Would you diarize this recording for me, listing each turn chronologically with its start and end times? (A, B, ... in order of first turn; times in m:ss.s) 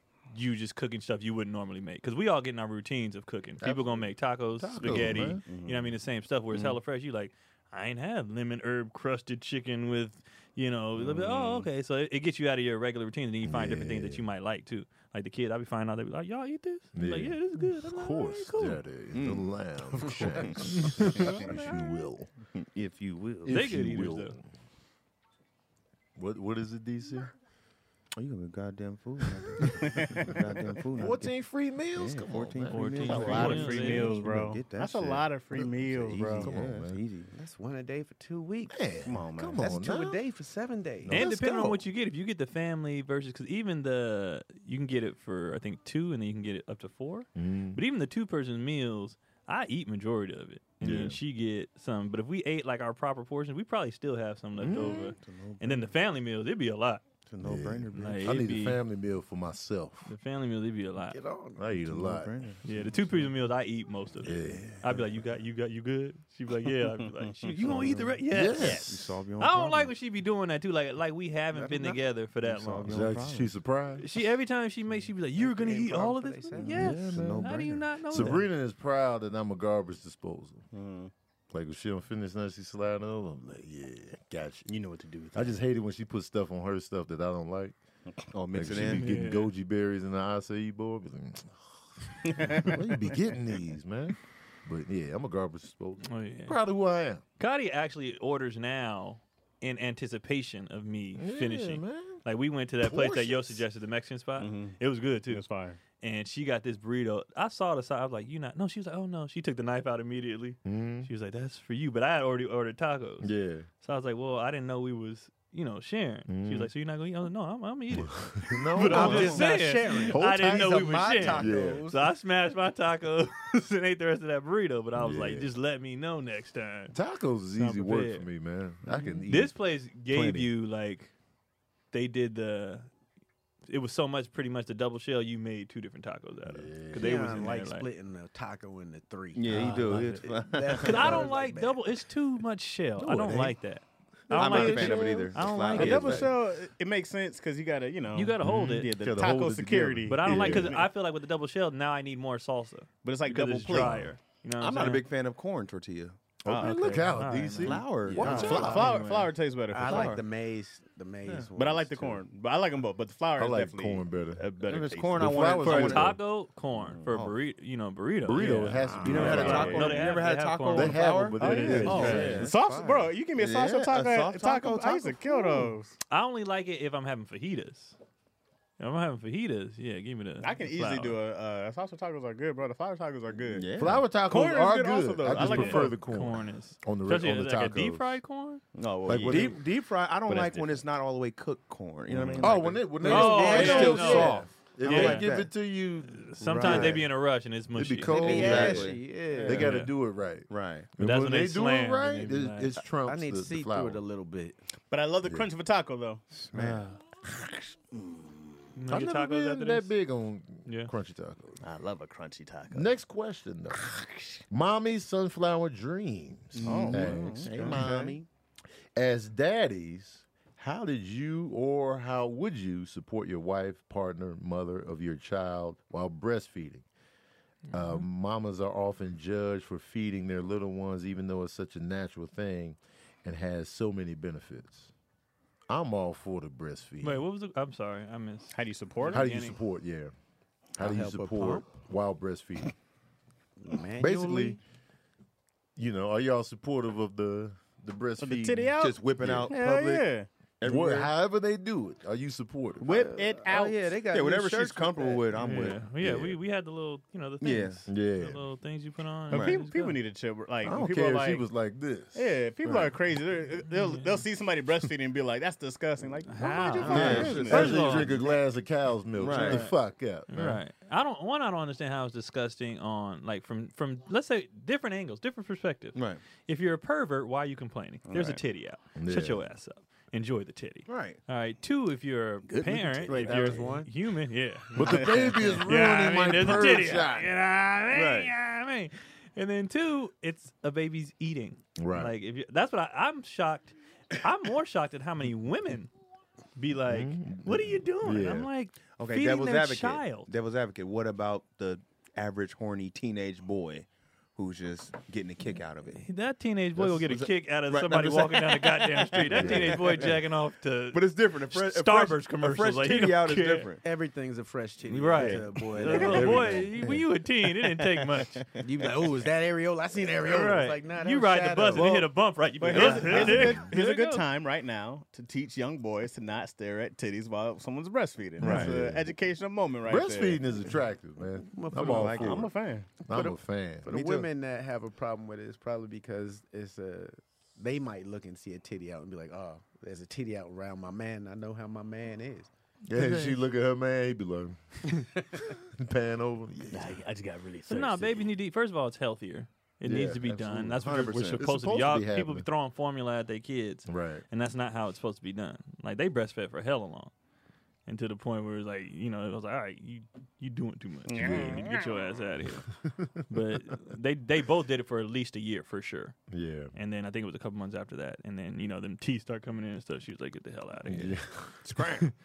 0:00.3-0:18.8 A
0:04.6-0:05.4 B
0:05.4-0:05.7 C
0:05.5-0:05.8 D
0:11.2-0:11.6 D
0:13.4-0:14.3 B
0:16.9-0:22.3 B
0:19.1-0:19.4 D
0:20.0-0:21.3 D
0:20.6-0:22.0 A
0:22.6-0:23.6 D
0:23.5-0:24.4 B
0:23.5-0:24.4 A
0:26.2-0:27.3 B
0:28.2-0:31.3 D
0:29.8-0:30.3 C
0:30.9-0:34.1 B
0:32.0-0:35.3 D
0:32.7-0:34.2 A
0:33.1-0:36.5 C
0:35.5-0:37.0 B
0:36.1-0:37.3 D
0:37.3-0:39.0 E
0:38.7-0:40.2 B
0:39.0-0:39.6 D
0:39.6-0:41.7 E
0:41.0-0:41.8 B
0:41.1-0:57.0 A
0:47.4-0:47.8 B
0:50.8-0:51.2 B
0:54.6-0:55.2 B
0:54.9-0:55.9 D
0:57.3-0:58.4 D
0:57.4-1:00.1 B
0:57.9-0:58.8 A
1:00.1-1:01.2 A
1:01.1-1:01.7 E
1:01.6-1:02.3 B
1:01.8-1:02.6 D
1:02.6-1:13.0 A
1:04.2-1:05.0 B
1:07.6-1:09.9 D
1:08.3-1:09.0 B
1:11.5-1:12.0 E
1:12.4-1:13.5 D
1:12.9-1:14.0 B
1:14.0-1:18.4 A
1:15.4-1:16.9 E
1:16.6-1:18.3 D
1:16.6-1:20.6 B
1:20.7-1:21.1 C
1:21.5-1:24.7 B
1:24.7-1:25.6 C
1:25.3-1:27.8 B
1:28.3-1:29.1 D
1:28.5-1:37.2 B
1:28.8-1:29.5 A
1:32.2-1:33.1 C
1:36.0-1:36.6 A
1:37.4-2:07.0 A
1:41.2-1:42.2 B
1:42.8-1:43.6 B
1:44.4-1:45.8 C
1:50.6-1:51.1 B
1:53.2-1:53.7 B
1:56.3-1:56.7 B
1:57.9-2:01.9 B
1:58.8-2:02.1 E
2:05.0-2:05.5 B
2:06.9-2:10.5 B
2:07.6-2:08.3 A
2:08.9-2:09.2 E
2:09.3-2:11.1 A
2:11.9-2:12.9 A
2:13.7-2:17.9 A
2:16.5-2:17.5 B
2:16.9-2:21.9 E
2:19.4-2:21.3 D
2:20.8-2:26.3 A
2:23.0-2:23.6 B
2:24.3-2:26.3 D
2:24.4-2:26.3 B
2:25.7-2:30.9 C
2:28.1-2:28.9 A
2:28.4-2:30.9 B
2:30.1-2:35.0 A
2:33.0-2:34.1 C
2:33.7-2:34.2 B
2:34.6-2:36.2 D
2:36.4-2:38.9 B
2:36.5-2:37.1 C
2:37.0-2:39.3 A
2:37.6-2:38.9 D
2:38.2-2:40.2 C
2:38.2-2:38.9 E
2:39.7-2:42.2 E
2:39.8-2:40.2 D
2:41.6-2:45.5 C
2:43.4-2:44.4 B
2:44.7-2:46.2 D
2:45.2-2:46.2 B
2:45.6-2:52.5 A
2:46.8-2:47.4 D
2:48.2-2:49.9 B
2:48.4-2:52.6 D
2:48.8-2:50.0 C
2:50.7-2:52.5 B
2:51.4-2:56.0 C
2:51.9-2:53.1 E
2:53.4-2:55.7 D
2:56.1-2:58.0 A
2:58.8-3:01.2 A
3:00.4-3:03.7 C
3:03.5-3:04.0 D
3:03.8-3:08.2 B
3:04.3-3:06.0 C
3:05.3-3:08.6 A
3:08.8-3:09.6 C
3:09.1-3:09.6 B
3:09.1-3:12.9 D
3:10.3-3:10.8 C
3:12.1-3:12.7 C
3:12.4-3:17.1 B
3:13.0-3:15.5 E
3:13.0-3:15.3 A
3:13.5-3:14.0 D
3:14.9-3:15.3 D
3:16.1-3:18.8 A
3:16.4-3:17.1 D
3:17.7-3:18.9 B
3:18.0-3:19.7 E
3:18.1-3:19.9 D
3:19.4-3:24.0 B
3:19.5-3:19.9 A
3:20.5-3:20.9 D
3:21.0-3:22.8 A
3:22.9-3:24.6 E
3:24.9-3:26.2 C
3:26.5-3:27.0 D
3:26.5-3:26.9 B
3:28.8-3:29.9 A
3:28.9-3:31.6 B
3:30.7-3:30.9 A
3:31.6-3:32.9 C
3:32.7-3:33.9 B
3:33.8-3:34.1 C
3:34.5-3:38.1 B
3:36.6-3:38.3 D
3:36.6-3:38.1 C
3:39.0-3:46.9 B
3:47.7-3:48.0 A
3:47.7-3:54.9 B
3:55.7-3:57.2 B
3:57.0-3:59.6 A
3:58.5-3:59.2 C
3:59.1-4:00.1 B
4:00.8-4:02.7 B
4:00.8-4:01.7 E
4:03.6-4:04.6 E
4:04.0-4:04.6 B
4:05.8-4:09.5 B
4:08.2-4:10.3 C
4:08.8-4:10.1 D
4:10.6-4:11.1 D
4:10.6-4:12.9 B
4:12.8-4:13.8 C
4:12.8-4:15.3 E
4:14.1-4:15.8 D
4:15.4-4:16.4 B
4:15.4-4:20.0 A
4:17.4-4:17.8 D
4:17.9-4:18.4 B
4:19.3-4:21.5 C
4:20.6-4:22.9 B
4:22.1-4:28.2 C
4:23.8-4:24.2 A
4:26.3-4:28.2 A
4:26.8-4:28.2 D
4:26.8-4:30.6 B
4:29.2-4:29.7 D
4:29.4-4:29.8 A
4:30.3-4:55.9 A
4:36.0-4:36.2 D
4:38.1-4:38.4 C
4:39.0-4:39.5 B
4:40.9-4:41.2 D
4:42.5-4:43.4 C
4:43.1-4:43.9 E
4:44.8-4:47.3 B
4:44.8-4:45.6 C
4:47.9-4:48.3 D
4:51.8-4:52.1 B
4:56.6-5:00.3 A
4:56.9-4:58.5 B
4:59.0-5:06.0 D
5:06.0-5:13.7 A
5:06.8-5:10.2 D
5:09.3-5:09.8 B
5:10.9-5:13.8 D
5:13.8-5:16.7 E
5:14.9-5:18.5 A
5:15.1-5:15.4 D
5:16.1-5:17.0 B
5:17.9-5:18.4 C
5:18.6-5:22.1 E
5:20.2-5:24.3 A
5:22.6-5:30.4 C
5:22.7-5:23.3 D
5:22.7-5:23.2 E
5:23.2-5:23.7 B
5:28.4-5:29.1 B
5:28.4-5:28.7 D
5:29.9-5:32.5 B
5:31.5-5:32.4 E
5:31.8-5:32.5 D
5:32.1-5:32.9 C
5:33.0-5:33.9 B
5:33.1-5:42.5 E
5:33.9-5:34.3 D
5:42.9-5:47.0 B
5:42.9-5:43.3 D
5:46.7-5:48.3 C
5:47.7-5:57.1 A
5:49.8-5:52.5 B
5:50.9-5:51.4 D
5:53.9-5:54.2 B
5:57.9-6:02.7 A
6:01.1-6:02.2 C
6:01.2-6:01.6 B
6:02.8-6:03.2 B
6:03.3-6:06.2 A
6:06.3-6:06.7 B
6:06.7-6:11.2 A
6:10.9-6:11.8 B
6:11.7-6:12.0 D